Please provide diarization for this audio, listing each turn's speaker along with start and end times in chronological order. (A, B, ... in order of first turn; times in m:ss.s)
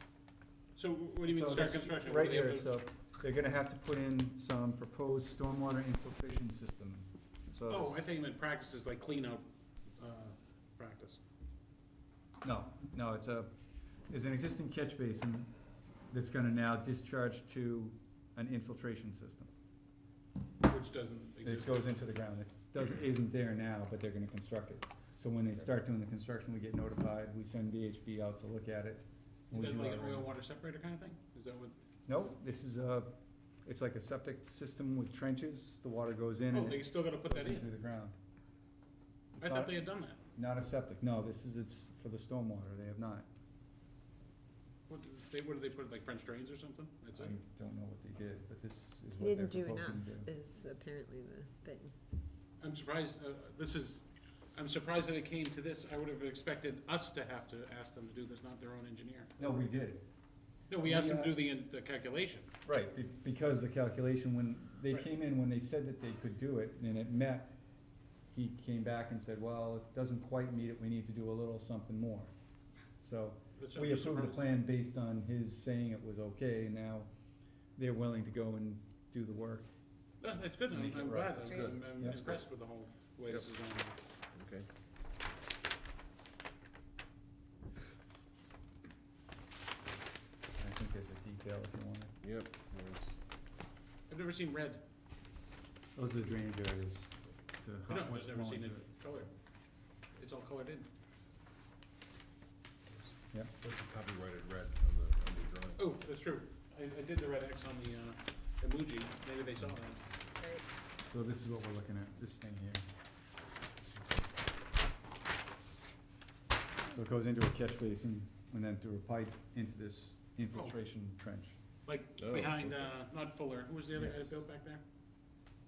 0:00.8-0:02.7 A
0:01.2-0:08.1 B
0:07.7-0:09.4 A
0:10.0-0:11.2 A
0:12.4-0:13.5 B
0:14.1-0:15.5 B
0:16.1-0:19.5 B
0:20.6-0:21.9 A
0:21.4-0:30.3 B
0:29.5-0:31.8 A
0:32.1-0:38.2 B
0:36.5-0:37.7 A
0:39.3-0:39.8 B
0:39.4-0:40.2 A
0:40.4-0:43.3 B
0:44.9-0:47.4 A
0:47.1-0:50.3 B
0:49.2-0:51.9 C
0:52.6-0:59.4 A
0:59.4-1:00.0 B
1:00.7-1:02.5 A
1:00.8-1:01.4 B
1:02.6-1:07.5 B
1:08.3-1:12.3 B
1:13.0-1:17.1 B
1:13.6-1:14.5 A
1:17.8-1:19.7 B
1:20.2-1:24.0 A
1:20.7-1:22.3 B
1:21.5-1:22.4 D
1:24.4-1:24.7 D
1:30.6-1:32.1 B
1:32.2-1:33.1 D
1:34.1-1:34.8 A
1:36.0-1:38.9 B
1:37.9-1:39.3 A
1:40.2-1:40.9 A
1:43.6-1:45.9 D
1:45.8-1:50.0 A
1:51.0-1:52.9 B
1:56.9-2:01.6 B
2:00.5-2:00.8 A
2:01.9-2:04.8 A
2:02.2-2:02.9 D
2:04.0-2:04.4 B